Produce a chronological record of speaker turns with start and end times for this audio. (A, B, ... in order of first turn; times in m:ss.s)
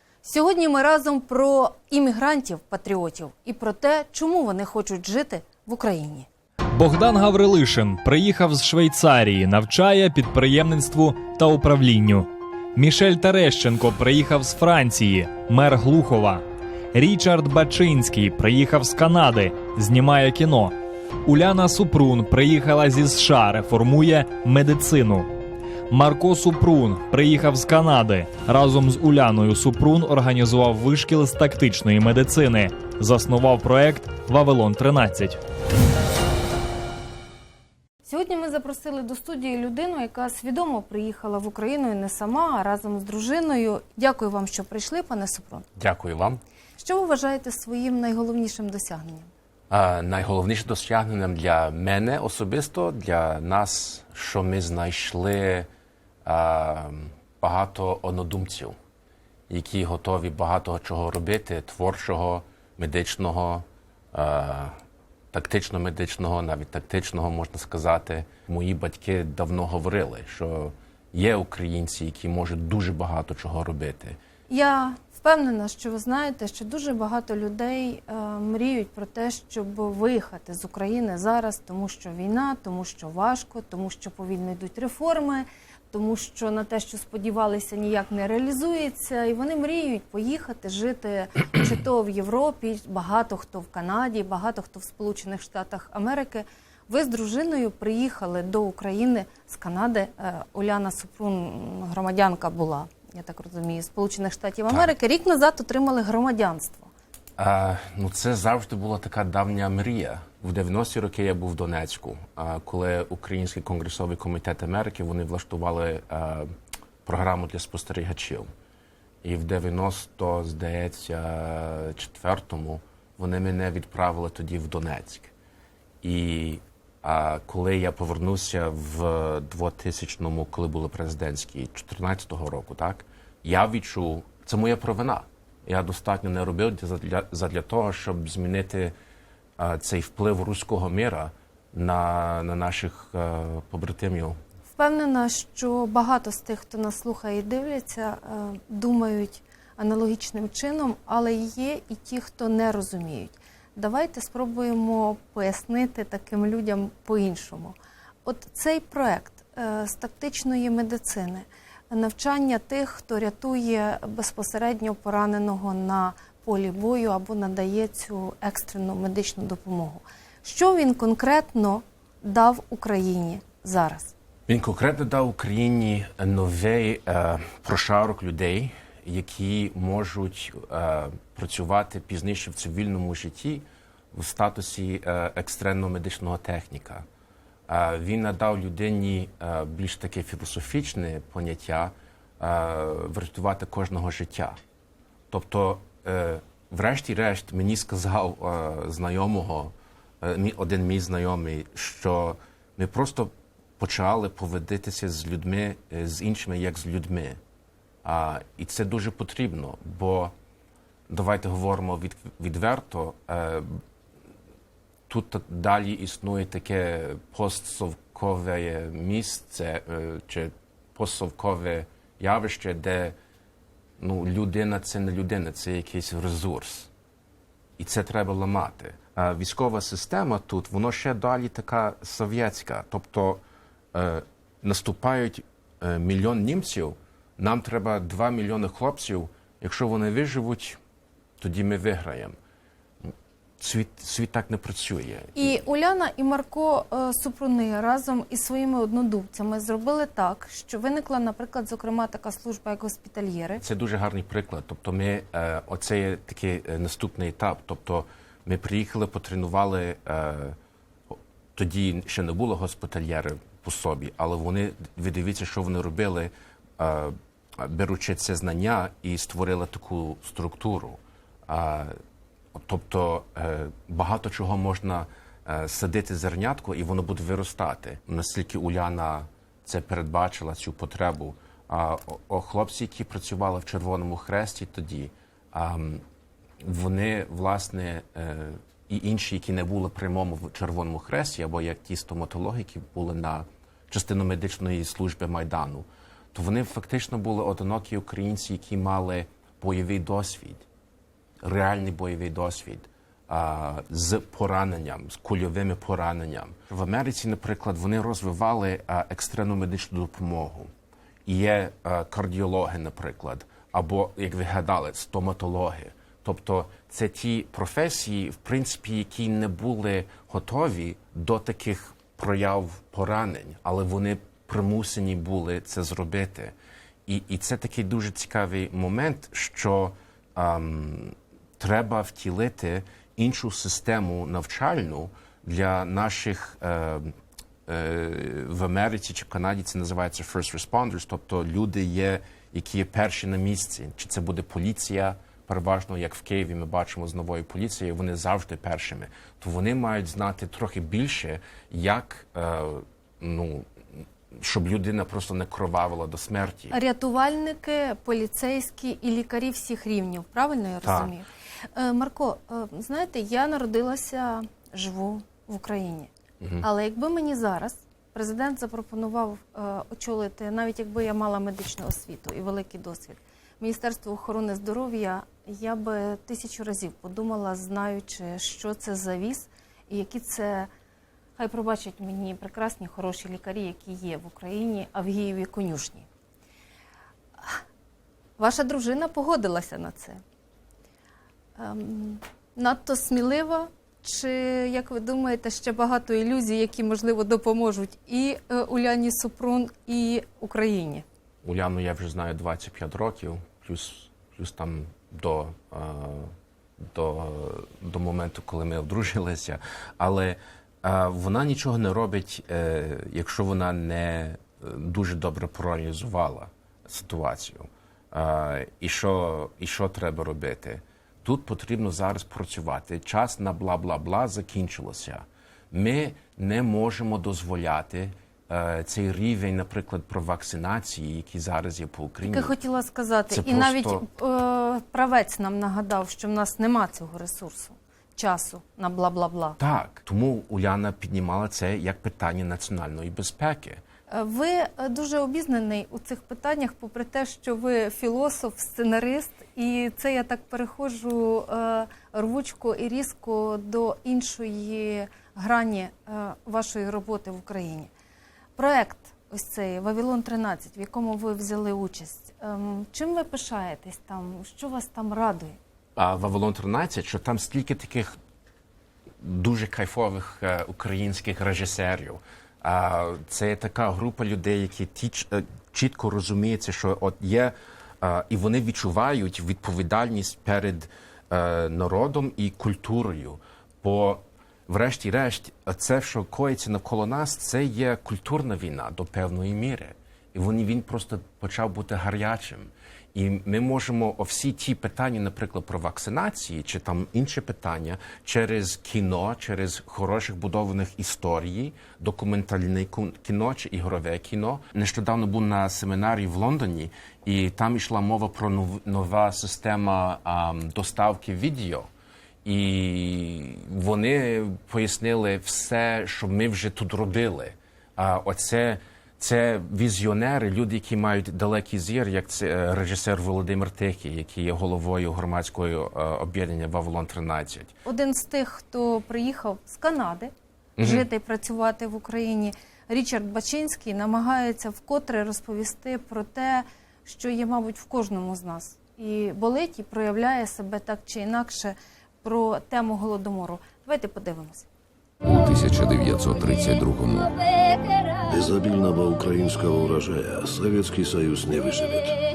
0:00.2-0:06.3 A
0:06.7-0:16.4 B
0:16.9-0:20.7 B
0:21.2-0:25.3 B
0:25.9-0:35.4 B
0:38.0-0:45.6 A
0:45.8-0:46.4 C
0:46.8-0:49.3 A
0:49.7-0:55.7 C
0:56.2-0:58.8 C
0:59.5-1:04.8 C
1:05.3-1:14.2 C
1:14.5-1:46.9 A
1:47.4-1:56.5 C
1:57.0-1:58.5 C
1:59.2-2:05.3 C
2:06.0-2:18.9 C
2:19.6-2:24.4 C
2:24.8-2:54.1 A
2:54.5-3:07.0 C
3:07.7-3:14.6 C
3:15.3-3:27.4 C
3:28.0-3:30.3 C
3:31.1-3:33.8 C
3:35.1-3:43.1 C
3:44.0-3:46.9 C
3:47.8-3:53.4 C
3:53.9-4:00.8 C
4:01.4-4:02.3 C
4:03.0-4:05.6 C
4:05.3-4:13.6 A
4:13.6-4:20.6 C
4:21.1-4:32.0 C
4:32.5-4:46.0 C
4:46.6-5:00.6 C
5:01.4-5:10.7 C
5:11.2-5:26.5 C
5:27.0-5:37.1 C
5:37.7-5:56.8 C
5:56.7-6:06.1 A
6:00.8-6:01.1 C
6:06.4-6:06.6 C
6:06.6-6:20.7 A
6:21.4-6:26.1 A
6:28.4-6:30.2 A
6:31.6-6:41.0 A
6:41.4-6:46.3 C
6:46.9-7:12.5 C
7:12.2-7:19.6 A
7:13.3-7:14.0 C
7:19.6-7:23.8 C
7:24.1-7:37.9 A
7:38.6-7:45.6 A
7:46.0-7:48.2 C
7:49.2-8:31.9 C
8:32.4-8:47.8 C
8:47.8-9:04.6 A
8:50.8-8:51.0 C
9:05.2-9:07.4 D
9:08.3-9:12.2 E